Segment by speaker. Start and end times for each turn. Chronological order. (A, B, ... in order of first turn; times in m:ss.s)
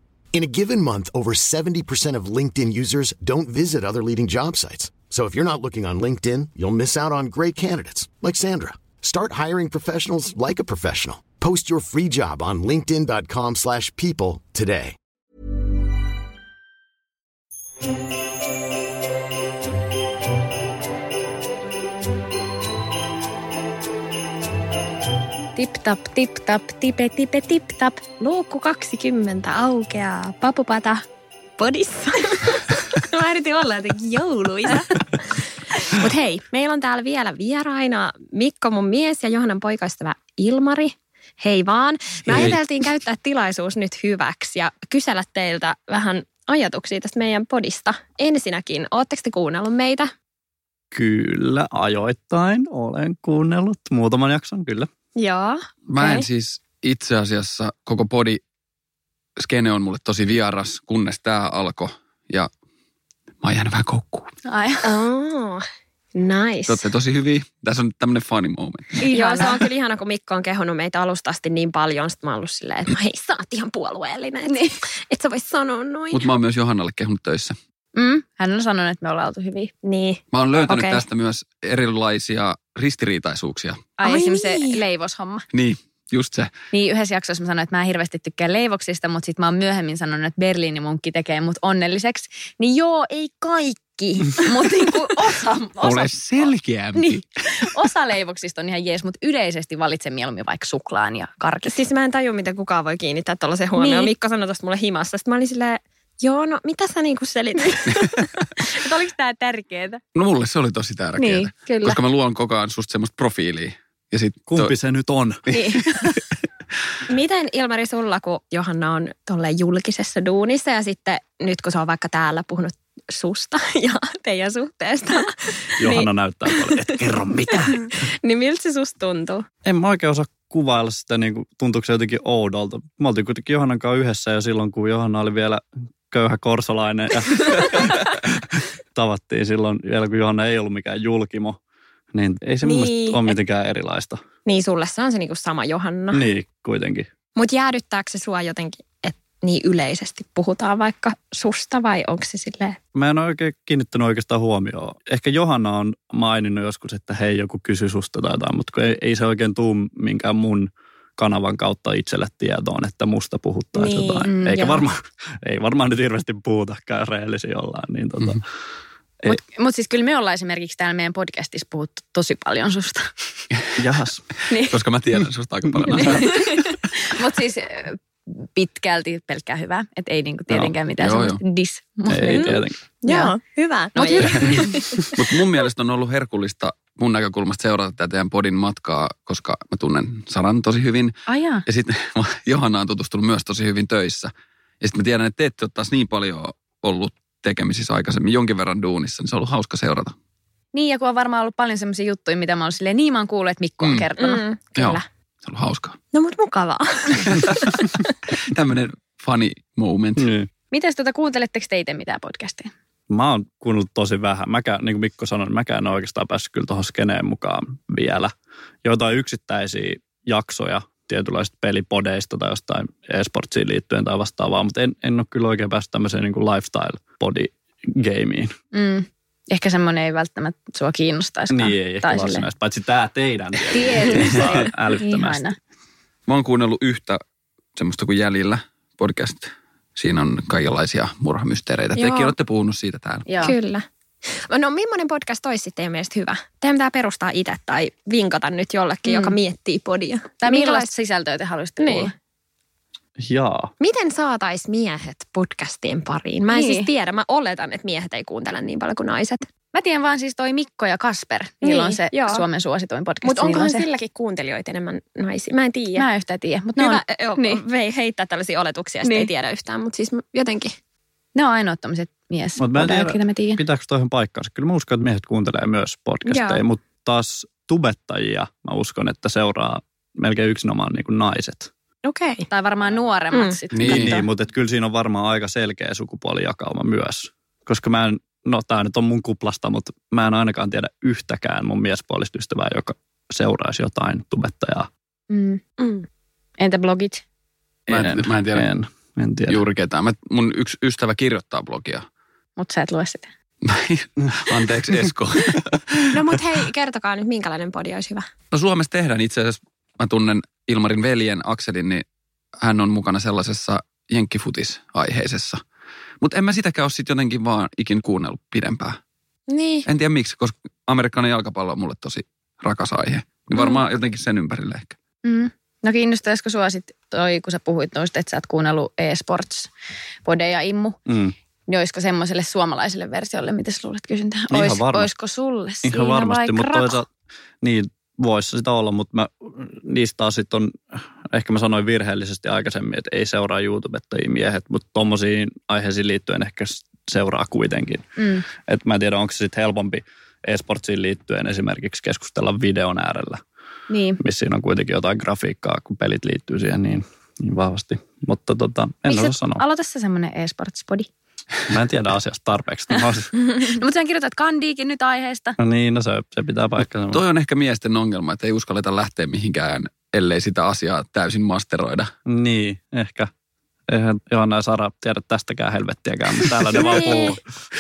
0:00.3-0:15.0 A
0:25.6-0:28.0 B
0:28.2-0:31.0 C
0:31.6-0:34.9 C
0:36.0-0:50.1 C
0:50.9-0:54.9 D
0:55.2-0:56.3 C
0:55.9-0:58.4 E
0:59.4-1:02.5 E
1:03.4-1:04.3 E
1:04.5-1:05.0 B
1:04.8-1:05.6 C
1:06.2-1:06.8 C
1:06.7-1:09.0 E
1:09.0-1:09.6 B
1:09.2-1:16.2 C
1:16.1-1:17.6 E
1:17.9-1:19.7 B
1:19.8-1:21.0 C
1:20.3-1:23.8 E
1:24.0-1:25.4 B
1:24.0-1:24.8 C
1:25.5-1:26.5 E
1:26.7-1:41.8 B
1:35.8-1:37.2 E
1:41.7-1:48.2 C
1:43.8-1:44.1 B
1:48.6-1:50.0 B
1:50.2-1:54.7 E
1:51.2-1:52.0 B
1:54.5-1:56.1 D
1:55.5-1:55.8 B
1:57.1-2:05.2 C
2:05.8-2:07.9 D
2:08.2-2:09.4 C
2:09.6-2:21.6 D
2:22.1-2:24.2 D
2:22.6-2:23.2 C
2:24.5-2:26.2 C
2:26.1-2:27.1 D
2:27.4-2:32.8 C
2:32.9-2:48.4 D
2:43.8-2:44.8 C
2:44.3-2:44.8 B
2:49.3-2:53.1 B
2:53.8-2:54.2 D
2:54.5-2:54.8 B
2:54.7-2:56.6 E
2:55.9-2:58.0 B
2:58.6-3:03.3 B
3:01.0-3:01.4 E
3:02.1-3:02.8 D
3:02.3-3:04.0 C
3:04.0-3:04.8 B
3:04.0-3:04.6 E
3:04.6-3:05.1 C
3:05.2-3:14.3 E
3:11.3-3:11.6 B
3:14.8-3:20.1 E
3:20.7-3:24.4 B
3:23.8-3:24.1 E
3:24.2-3:25.0 C
3:24.8-3:26.0 E
3:26.1-3:27.7 C
3:27.3-3:30.3 E
3:30.2-3:30.5 D
3:30.7-3:32.7 B
3:33.1-3:38.3 D
3:38.8-3:48.5 D
3:48.7-3:52.5 B
3:51.5-3:55.5 D
3:53.7-3:55.6 B
3:56.3-3:57.2 E
3:57.8-4:03.4 E
4:02.0-4:02.3 C
4:03.3-4:03.6 B
4:03.4-4:03.8 C
4:04.5-4:10.9 C
4:09.0-4:09.4 B
4:10.4-4:12.2 B
4:11.8-4:12.1 C
4:13.2-4:13.7 D
4:13.8-4:19.4 C
4:16.5-4:16.9 B
4:19.7-4:23.9 B
4:21.6-4:22.4 C
4:23.2-4:26.1 C
4:26.0-4:27.6 B
4:26.8-4:30.8 C
4:29.0-4:29.3 B
4:31.4-4:33.6 B
4:32.6-4:41.7 D
4:36.3-4:36.6 C
4:42.1-4:42.4 C
4:42.5-4:44.3 B
4:43.7-4:44.2 E
4:43.8-4:54.9 D
4:55.3-4:55.6 B
4:56.6-4:57.2 B
4:57.9-4:59.6 D
4:57.9-4:58.7 E
4:59.5-5:02.0 E
5:02.6-5:03.3 B
5:03.6-5:06.3 E
5:06.1-5:08.2 C
5:08.5-5:12.0 E
5:12.6-5:15.6 E
5:16.2-5:19.0 E
5:19.5-5:19.9 C
5:19.9-5:25.0 E
5:25.2-5:29.7 B
5:30.2-5:31.0 B
5:31.1-5:31.4 D
5:31.7-5:37.0 B
5:34.5-5:35.1 D
5:35.8-5:37.1 D
5:37.6-5:40.8 D
5:41.3-5:53.4 D
5:48.2-5:48.4 B
5:53.9-5:54.2 B
5:54.2-5:59.6 D
5:59.1-6:01.1 B
6:01.7-6:03.3 D
6:03.4-6:05.6 B
6:05.6-6:07.2 D
6:07.1-6:12.1 E
6:12.3-6:13.3 D
6:13.9-6:17.4 D
6:16.8-6:17.4 C